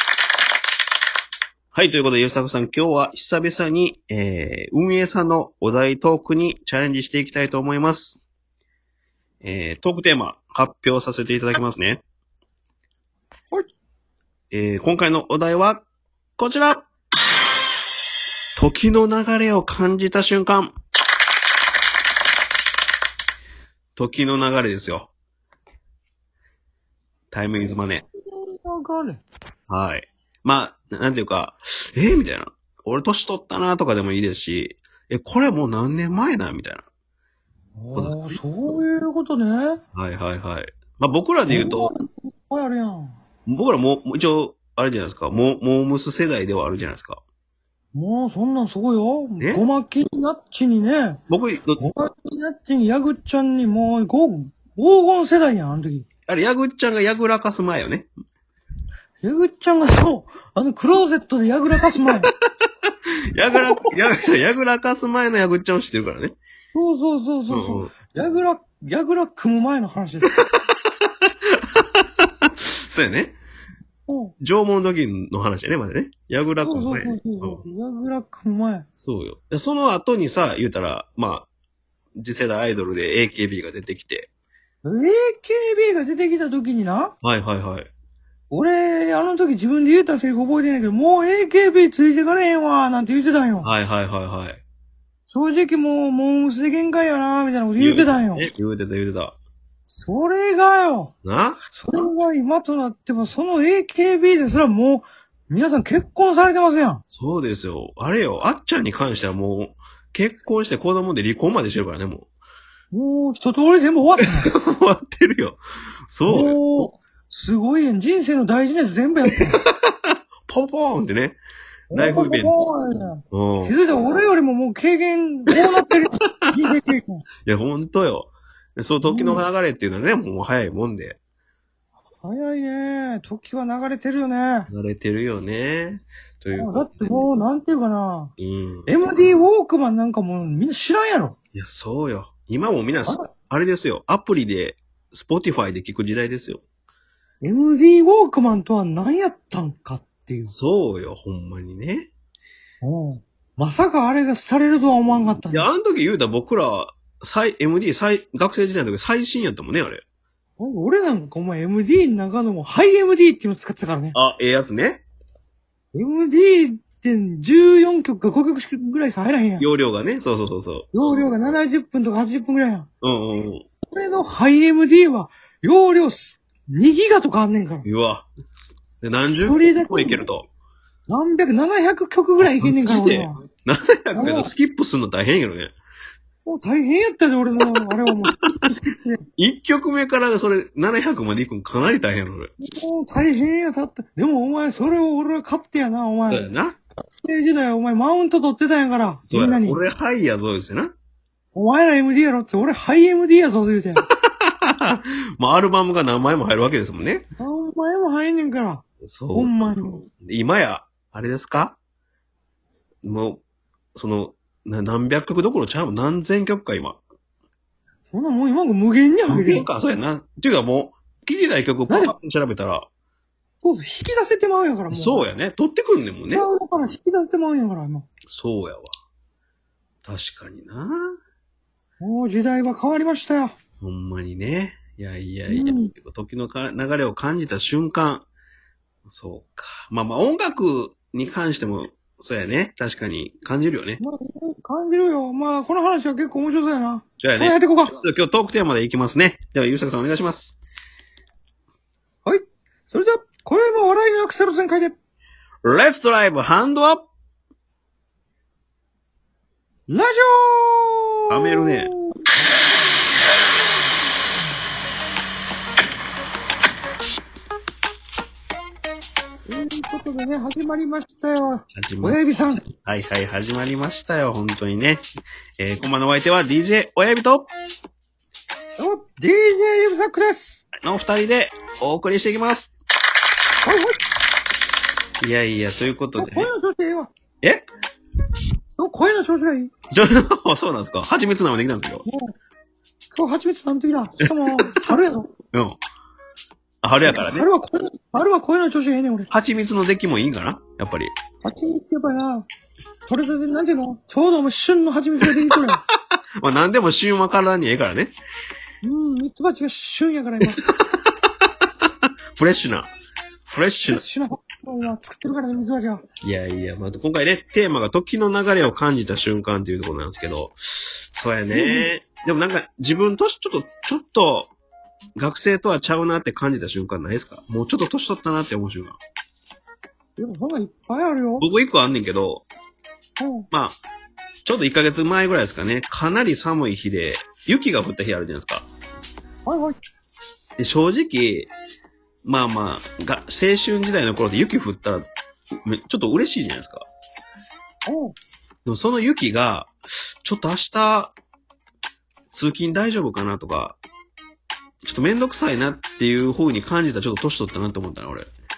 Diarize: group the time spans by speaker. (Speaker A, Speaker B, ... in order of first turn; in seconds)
Speaker A: 1.7-8.2, 9.4-12.0, 14.5-15.8, 16.4-16.9, 18.6-20.7, 23.9-25.1, 27.3-28.0, 29.7-36.8, 37.9-38.4, 39.9-41.9, 43.5-47.2, 51.3-51.8, 56.3-58.1, 63.3-66.4, 67.5-67.9, 71.5-73.4, 74.4-77.6, 79.0-81.5, 82.2-84.3, 87.2-87.9, 93.6-94.6, 97.8-99.3, 101.2-101.6, 107.1-112.3, 114.2-116.9, 119.3-121.4, 121.9-122.5, 123.3-123.7, 127.5-131.2, 134.7-137.2, 138.4-138.9, 141.5-146.6, 150.4-152.1, 155.5-160.0, 164.1-165.0, 169.6-171.3, 173.0-173.6, 177.8-180.5, 182.4-185.7, 188.2-188.7, 189.4-192.5, 196.3-196.8, 199.3-200.9, 204.1-207.3, 209.0-211.8, 213.0-213.4, 213.9-217.0, 219.3-222.9, 224.9-226.4, 228.3-228.9, 230.0-231.1, 233.8-238.2, 239.1-244.0, 247.2-250.6, 255.6-257.1, 261.3-261.9, 271.7-272.2, 272.8-275.0, 275.6-277.5, 280.8-282.7, 285.2-286.5, 287.4-287.7, 289.9-292.0, 295.5-295.8, 296.8-297.5, 299.3-301.1, 306.4-308.1, 312.4-312.9, 313.5-314.0, 316.2-324.5, 325.2-329.0, 331.4-332.4, 333.5-333.8, 334.4-338.7, 340.6-341.5, 342.2-345.1, 345.6-346.9, 348.6-351.1, 352.3-353.8, 354.8-358.3
Speaker B: 28.2-29.2, 37.8-39.8, 41.5-43.2, 47.9-51.2, 51.8-56.0, 59.2-62.3, 63.5-63.8, 66.7-70.3, 74.1-74.3, 76.6-78.8, 84.8-87.1, 88.5-93.7, 95.3-98.5, 99.9-101.1, 101.7-107.0, 112.9-114.5, 116.2-119.6, 121.9-127.2, 129.0-129.4, 132.2-134.7, 136.5-138.3, 138.9-141.3, 147.4-150.5, 152.8-155.7, 160.6-164.2, 165.9-169.7, 170.9-172.9, 173.9-177.8, 179.4-180.2, 181.1-183.4, 184.1-184.5, 186.4-189.2, 192.6-196.5, 197.0-199.8, 201.5-204.0, 207.4-210.0, 218.1-219.7, 221.9-222.1, 223.6-225.2, 226.3-228.1, 232.0-233.6, 235.5-235.9, 244.0-247.9, 252.2-254.9, 259.9-262.2, 269.5-272.6, 278.8-280.6, 283.6-284.0, 286.2-287.1, 288.8-289.7, 292.0-292.3, 293.1-295.3, 297.0-299.3, 301.4-302.5, 303.1-305.8, 308.8-310.6, 313.9-316.0, 321.5-321.9, 330.2-331.5, 333.2-333.5, 339.4-339.8, 347.9-348.2